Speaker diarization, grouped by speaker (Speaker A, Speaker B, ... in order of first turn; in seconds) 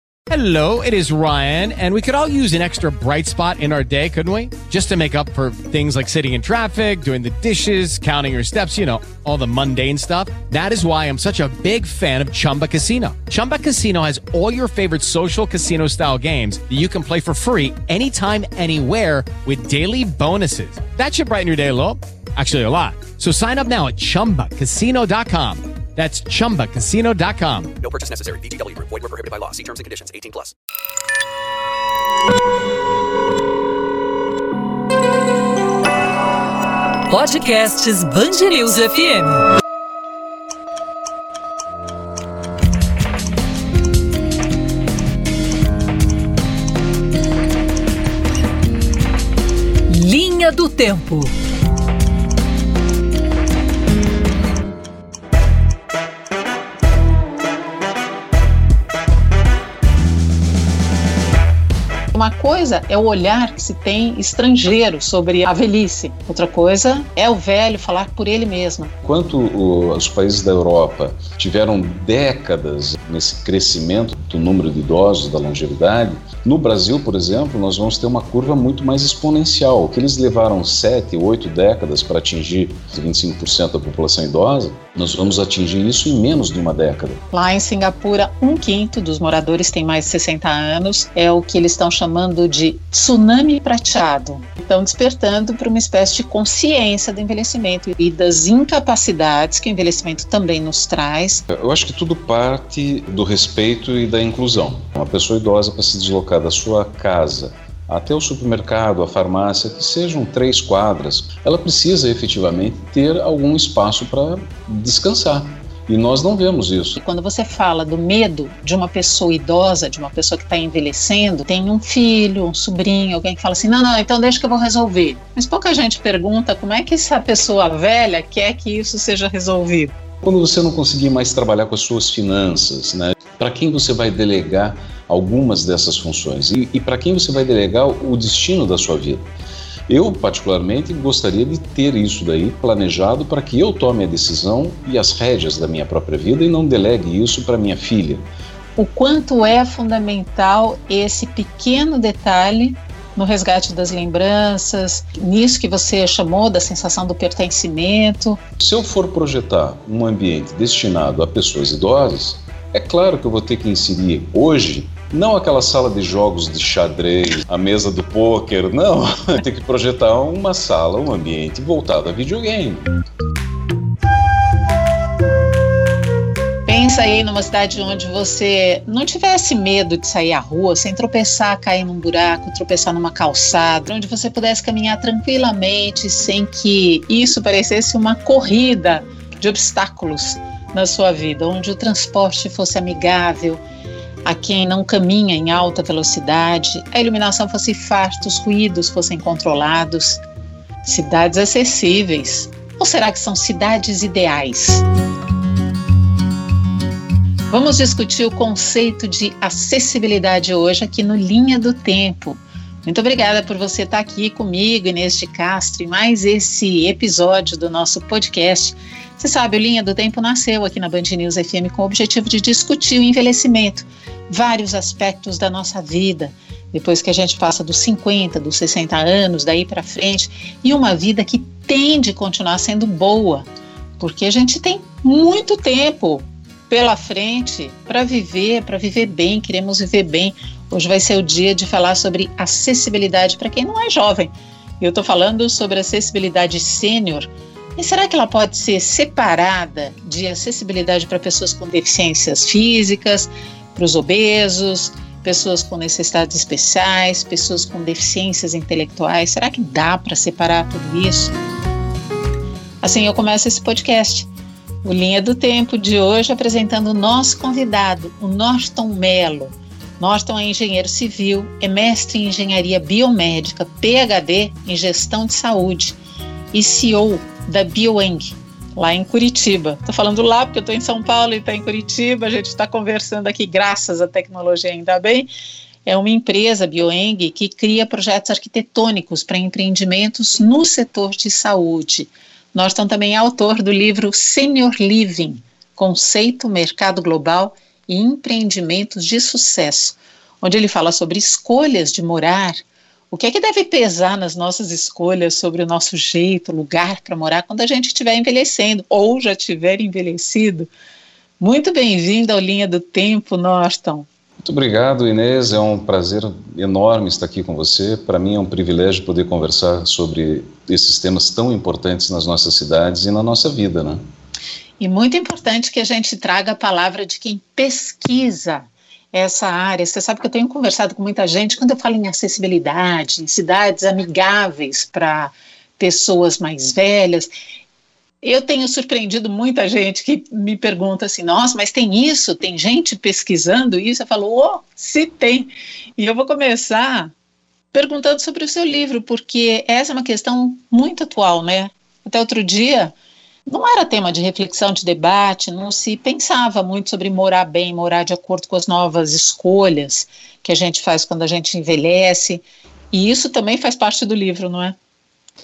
Speaker A: 0.3-27.8
Speaker B: 27.8-30.5
Speaker C: 37.1-39.4, 49.9-51.3
Speaker D: 62.1-68.9, 87.3-101.4, 117.0-129.9, 148.8-158.4, 176.7-193.6, 194.2-200.2, 200.8-204.8, 207.5-233.4, 234.0-261.3, 262.8-264.3, 264.8-276.0, 276.5-285.3, 285.8-310.7, 311.4-314.1, 324.8-337.3, 338.2-347.1, 347.7-352.9, 353.5-364.7
Speaker E: 69.0-87.2, 101.5-117.0, 130.2-139.3, 139.9-148.2, 158.6-172.9, 314.4-324.0